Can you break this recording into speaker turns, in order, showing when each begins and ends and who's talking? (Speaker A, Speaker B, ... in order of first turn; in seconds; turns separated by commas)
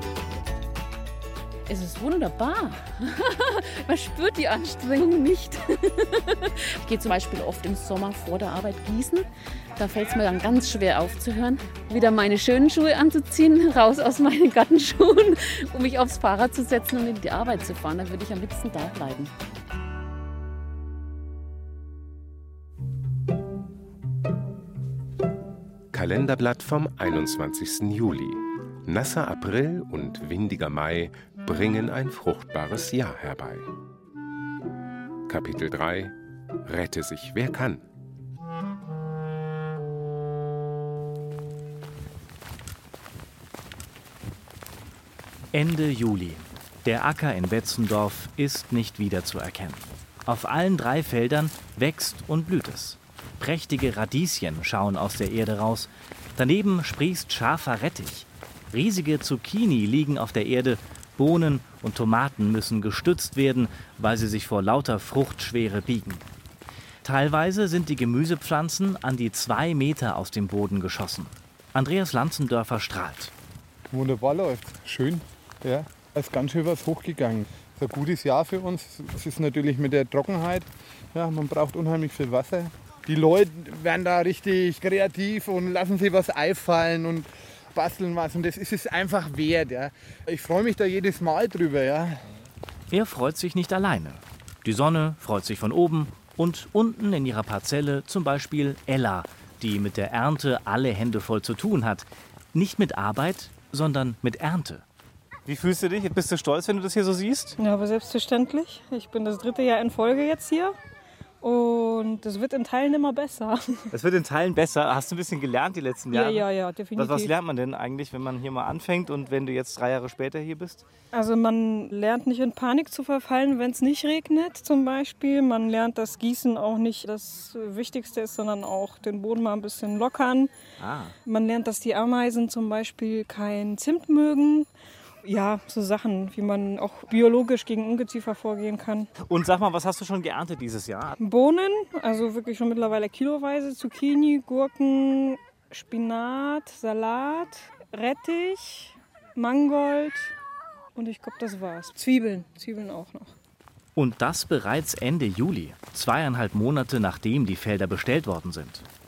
Speaker A: 1.7-19.3, Speaker B: 25.9-33.7, Speaker B: 35.3-36.1, Speaker B: 36.6-37.8, Speaker C: 45.5-66.2, Speaker C: 67.0-73.3, Speaker D: 73.9-92.2, Speaker C: 92.9-104.8, Speaker C: 105.5-107.6, Speaker E: 107.6-110.8, Speaker E: 111.4-113.9, Speaker C: 113.9-120.8, Speaker E: 116.1-117.3, Speaker E: 121.1-130.5, Speaker C: 130.8-131.1, Speaker E: 131.2-134.7, Speaker E: 135.2-139.1, Speaker C: 139.2-141.2, Speaker E: 141.2-150.3, Speaker E: 150.9-153.3, Speaker C: 153.9-158.8